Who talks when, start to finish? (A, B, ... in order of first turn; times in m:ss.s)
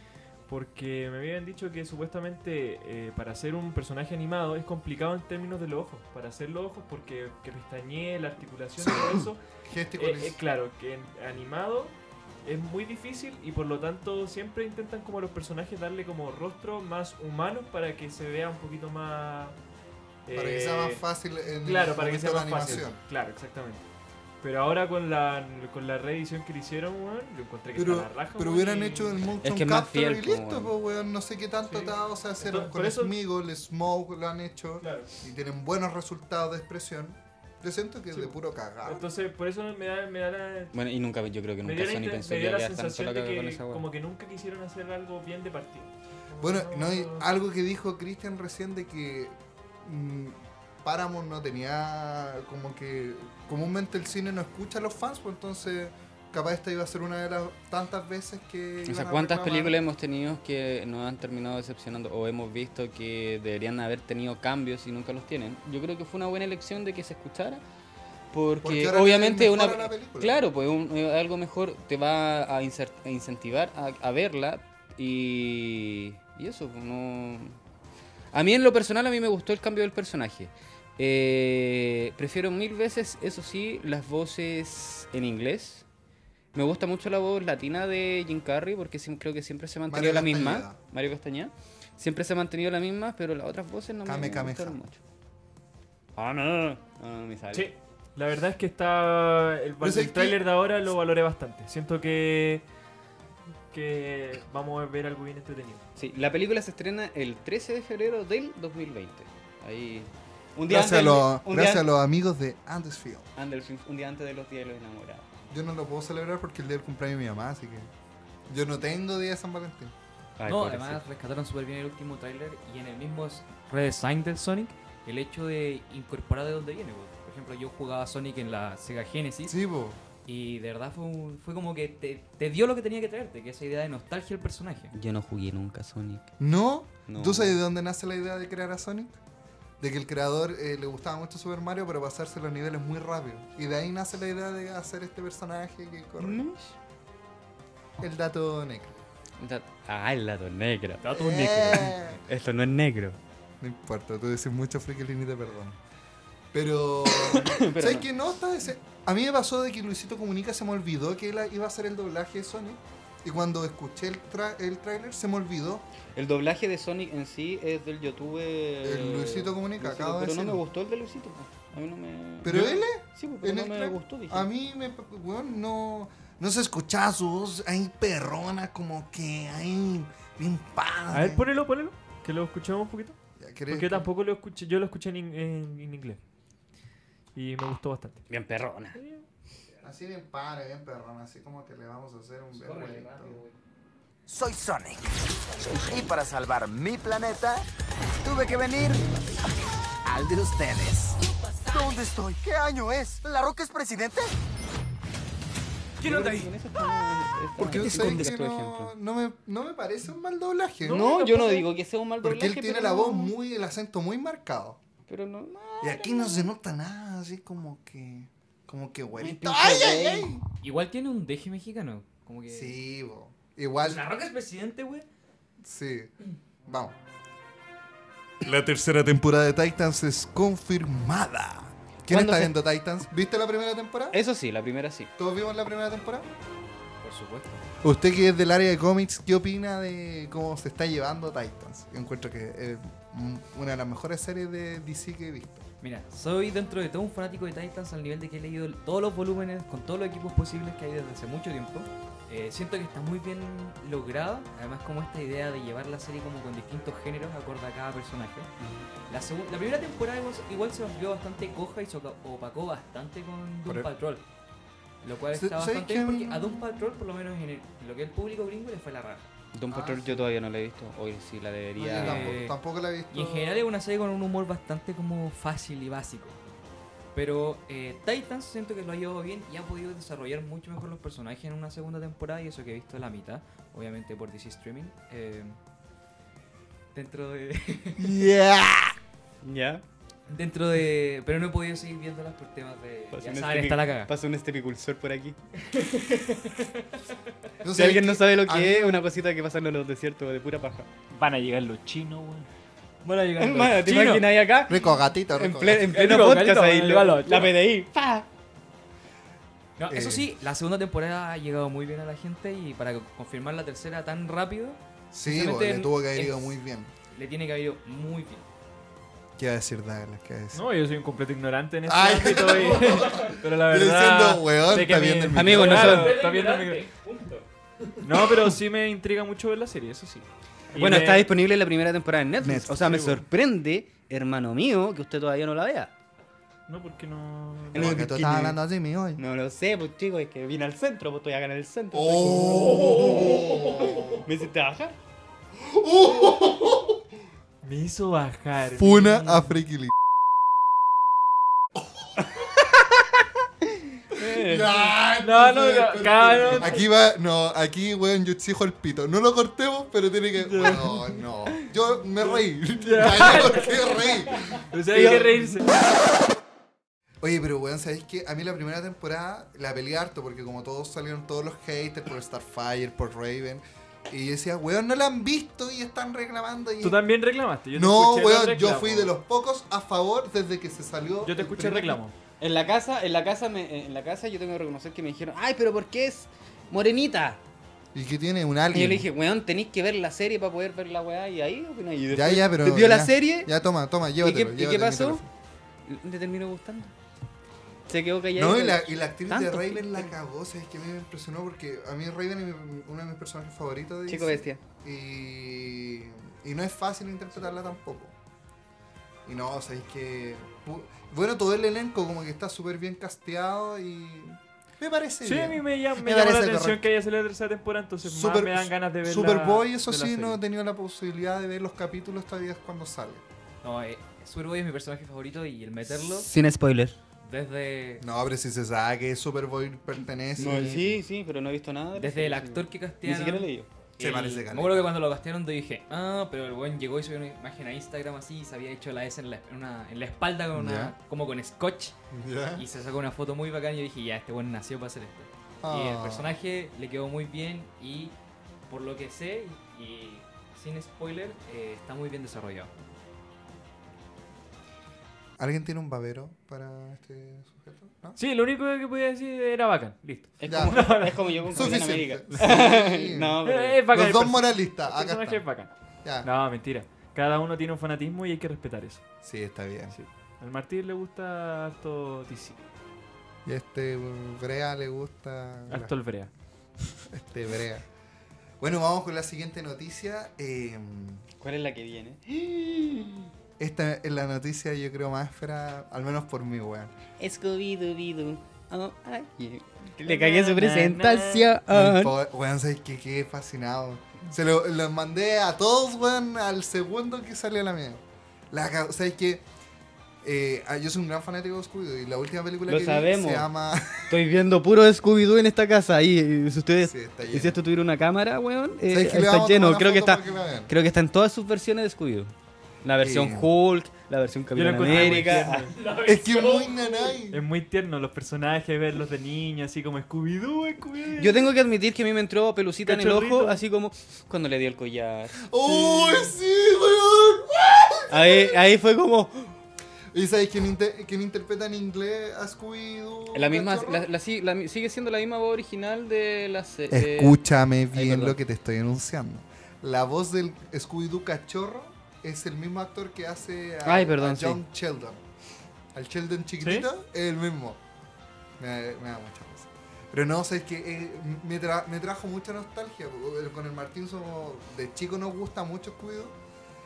0:00.5-0:09.4 A
0:08.8-0:10.4 B
0:10.0-0:19.6 A
0:20.2-0:23.8 A
0:20.3-0:23.0 B
0:24.4-0:29.2 A
0:27.7-0:39.0 B
0:29.4-0:30.7 C
0:31.7-0:33.1 A
0:34.8-0:35.1 A
0:38.1-0:40.7 A
0:40.7-0:43.8 C
0:41.6-0:47.2 A
0:46.4-0:59.8 B
0:58.9-1:07.6 C
1:08.3-1:17.6 C
1:08.6-1:10.3 B
1:18.3-1:25.8 C
1:26.5-1:35.0 C
1:29.9-1:30.8 B
1:34.0-1:34.8 B
1:36.2-1:37.7 C
1:37.5-1:42.6 A
1:39.8-1:40.4 B
1:43.7-1:45.8 A
1:46.0-1:51.8 C
1:50.7-1:53.3 B
1:53.4-1:55.3 C
1:55.5-1:57.9 B
1:58.5-1:59.9 B
2:00.4-2:01.0 C
2:00.4-2:09.5 D
2:09.5-2:10.0 B
2:10.2-2:14.9 D
2:14.9-2:16.3 C
2:16.4-2:19.2 B
2:17.1-2:17.6 C
2:19.8-2:26.4 B
2:26.2-2:26.7 C
2:28.0-2:28.9 B
2:29.4-2:33.2 C
2:31.0-2:32.2 B
2:33.6-2:35.8 B
2:36.5-2:45.8 B
2:37.1-2:38.0 C
2:46.1-2:54.5 C
2:48.8-2:50.6 B
2:52.4-3:01.5 B
3:01.1-3:03.2 A
3:03.4-3:04.1 B
3:03.7-3:06.2 A
3:07.3-3:08.2 A
3:08.3-3:09.0 C
3:08.9-3:09.2 A
3:09.8-3:13.4 B
3:12.5-3:13.5 D
3:14.3-3:17.6 E
3:18.2-3:19.1 E
3:20.0-3:24.3 E
3:26.0-3:28.9 C
3:26.1-3:26.3 D
3:27.6-3:31.1 B
3:30.8-3:31.7 A
3:30.9-3:33.3 C
3:32.2-3:34.8 B
3:35.1-3:36.5 C
3:35.8-3:40.4 B
3:39.2-3:40.3 C
3:40.6-3:42.7 D
3:42.5-3:44.0 B
3:43.8-3:45.0 D
3:45.6-3:46.1 B
3:46.7-3:47.0 B
3:48.4-3:54.2 B
3:52.1-3:52.6 C
3:54.1-3:55.1 C
3:55.2-3:56.3 B
3:57.0-3:57.6 D
3:57.8-4:05.6 B
4:05.8-4:18.5 D
4:19.1-4:24.2 D
4:25.0-4:29.3 D
4:25.3-4:26.6 B
4:29.5-4:32.4 C
4:29.7-4:30.3 B
4:31.8-4:32.6 D
4:31.8-4:33.6 B
4:33.1-4:36.4 D
4:37.1-4:45.6 D
4:46.9-4:48.1 D
4:48.0-4:49.0 B
4:49.4-4:49.8 C
4:50.3-4:54.1 D
4:53.1-4:55.4 C
4:55.7-4:56.7 D
4:57.6-4:59.0 B
4:57.7-5:00.9 C
5:01.1-5:02.5 A
5:03.0-5:04.4 D
5:03.4-5:04.8 C
5:04.7-5:05.9 B
5:05.3-5:08.3 C
5:05.9-5:07.5 A
5:09.8-5:16.6 D
5:09.9-5:10.3 B
5:15.1-5:16.9 B
5:17.1-5:18.5 D
5:19.4-5:20.6 B
5:20.5-5:26.8 A
5:21.9-5:26.0 B
5:25.3-5:26.2 C
5:25.7-5:27.4 D
5:28.0-5:31.3 A
5:30.7-5:35.9 C
5:32.4-5:33.0 B
5:32.8-5:33.2 A
5:36.7-5:38.0 A
5:37.7-5:38.6 C
5:37.7-5:39.2 B
5:39.2-5:45.0 C
5:41.9-5:44.2 B
5:45.5-5:47.0 B
5:47.6-5:49.6 A
5:48.8-5:49.9 B
5:54.1-5:54.9 C
5:54.2-6:05.1 B
5:55.2-5:56.8 A
6:00.4-6:01.2 A
6:02.8-6:05.7 A
6:04.9-6:05.6 C
6:07.2-6:17.0 B
6:16.8-6:19.1 A
6:17.7-6:22.0 B
6:21.2-6:22.1 A
6:22.4-6:27.4 C
6:27.9-6:29.0 B
6:28.7-6:33.5 C
6:32.1-6:35.3 B
6:34.2-6:35.2 C
6:35.9-6:36.9 C
6:37.9-6:40.1 C
6:38.4-6:48.1 B
6:44.1-6:44.6 C
6:49.2-6:56.8 B
6:55.2-7:00.4 A
6:58.0-7:03.2 B
7:03.6-7:06.3 D
7:06.0-7:07.0 C
7:07.2-7:08.0 D
7:08.0-7:11.0 B
7:10.4-7:13.7 C
7:10.4-7:10.7 D
7:11.9-7:22.0 D
7:14.0-7:14.9 B
7:20.5-7:20.9 B
7:22.1-7:22.6 B
7:22.6-7:28.1 D
7:25.6-7:26.3 B
7:28.7-7:32.7 D
7:35.4-7:38.2 B
7:38.2-7:41.8 A
7:40.4-7:43.8 C
7:40.5-7:41.0 B
7:41.5-7:43.4 B
7:43.4-7:45.7 A
7:43.9-7:45.4 B
7:46.2-7:49.0 A
7:49.2-7:50.0 B
7:49.9-7:52.6 A
7:53.4-7:55.9 B
7:55.7-7:56.3 A
7:57.1-7:57.8 B
7:58.6-8:01.3 B
8:01.4-8:03.3 C
8:03.6-8:06.9 B
8:07.2-8:12.1 C
8:10.0-8:11.5 A
8:11.7-8:19.4 B
8:20.2-8:24.1 B
8:22.7-8:23.5 C
8:24.1-8:32.3 C
8:26.8-8:27.6 B
8:28.9-8:30.7 B
8:32.8-8:35.7 C
8:33.0-8:33.5 B
8:34.5-8:36.0 A
8:34.9-8:35.2 B
8:35.8-8:36.7 D
8:36.0-8:37.4 B
8:37.3-8:41.5 A
8:41.2-8:46.3 C
8:42.8-8:43.6 A
8:45.4-8:48.6 B
8:48.1-8:49.6 C
8:50.1-8:54.1 B
8:53.3-8:57.4 C
8:56.9-9:05.2 B
8:57.9-8:58.4 C
9:03.8-9:04.6 C
9:05.9-9:07.8 B
9:06.6-9:06.9 A
9:08.6-9:16.4 B